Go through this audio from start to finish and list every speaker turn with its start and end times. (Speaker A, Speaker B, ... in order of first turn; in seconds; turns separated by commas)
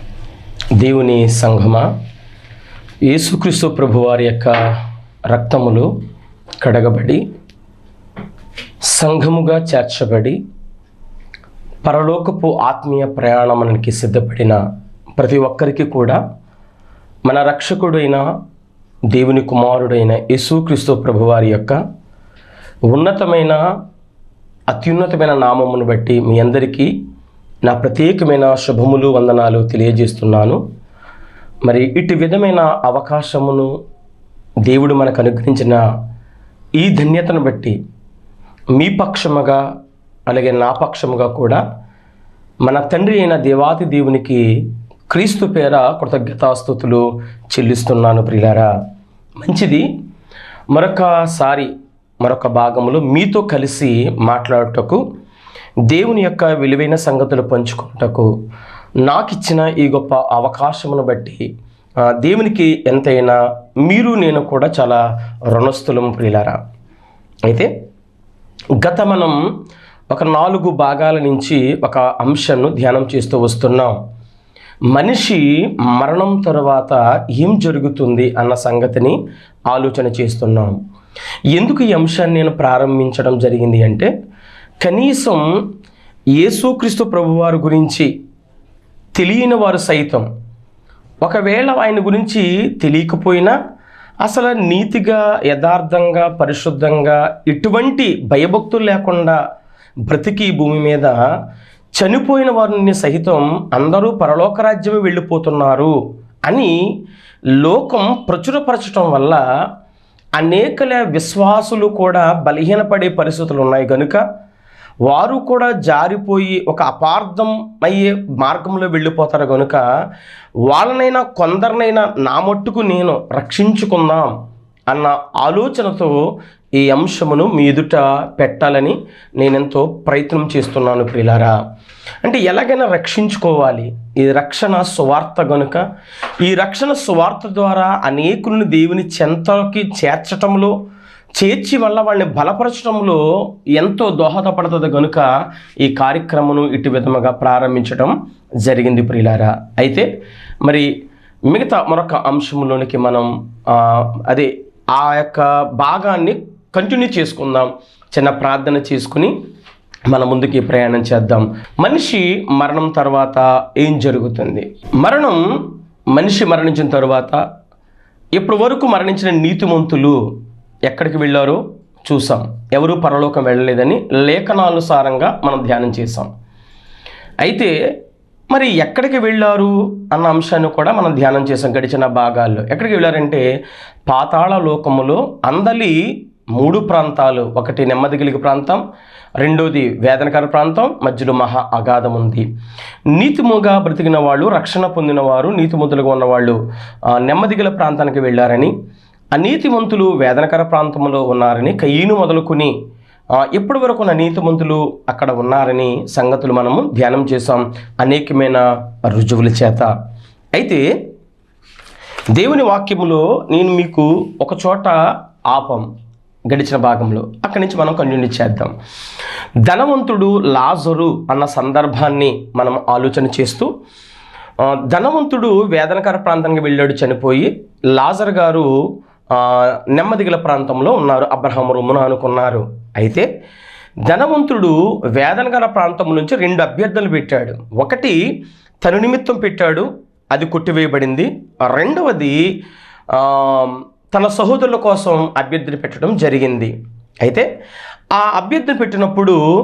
Speaker A: 0.8-1.9, Speaker A: 3.1-4.5, Speaker A: 5.3-5.9, Speaker A: 6.6-7.2, Speaker A: 8.9-10.4, Speaker A: 11.8-14.6, Speaker A: 15.2-16.2, Speaker A: 17.2-18.2, Speaker A: 19.1-21.8, Speaker A: 22.9-23.6, Speaker A: 24.7-26.9, Speaker A: 27.6-30.6, Speaker A: 31.6-33.7, Speaker A: 34.6-35.8, Speaker A: 36.8-37.8, Speaker A: 38.8-39.6, Speaker A: 40.3-41.6, Speaker A: 42.6-44.4, Speaker A: 45.1-48.7, Speaker A: 49.4-49.9, Speaker A: 50.7-51.7, Speaker A: 52.2-55.0, Speaker A: 55.9-58.3, Speaker A: 59.0-61.4, Speaker A: 62.2-66.6, Speaker A: 68.8-69.4, Speaker A: 70.1-74.0, Speaker A: 74.9-79.2, Speaker A: 79.7-80.8, Speaker A: 81.5-84.1, Speaker A: 84.8-85.5, Speaker A: 86.4-88.1, Speaker A: 89.2-90.2, Speaker A: 91.2-93.5, Speaker A: 94.2-99.4, Speaker A: 100.1-101.2, Speaker A: 102.0-105.9, Speaker A: 106.5-106.7, Speaker A: 107.6-109.4, Speaker A: 110.4-114.2, Speaker A: 115.0-119.8, Speaker A: 120.7-124.3, Speaker A: 124.9-126.2, Speaker A: 126.8-131.6, Speaker A: 132.2-135.8, Speaker A: 136.4-140.7, Speaker A: 141.3-143.2, Speaker A: 143.7-145.3, Speaker A: 145.8-150.1, Speaker A: 151.5-159.3, Speaker A: 160.1-165.4, Speaker A: 166.1-167.4, Speaker A: 168.3-170.2, Speaker A: 170.9-176.3, Speaker A: 177.4-177.7, Speaker A: 178.5-183.4, Speaker A: 184.1-186.0, Speaker A: 186.6-188.8, Speaker A: 189.4-192.4, Speaker A: 193.1-196.6, Speaker A: 197.1-198.7, Speaker A: 199.3-202.7, Speaker A: 203.3-209.9, Speaker A: 210.6-210.8, Speaker A: 212.3-215.0, Speaker A: 215.5-215.8, Speaker A: 216.5-218.7, Speaker A: 219.7-223.7, Speaker A: 224.9-228.7, Speaker A: 229.3-233.3, Speaker A: 234.1-238.2, Speaker A: 238.8-242.4, Speaker A: 243.1-247.4, Speaker A: 248.1-249.4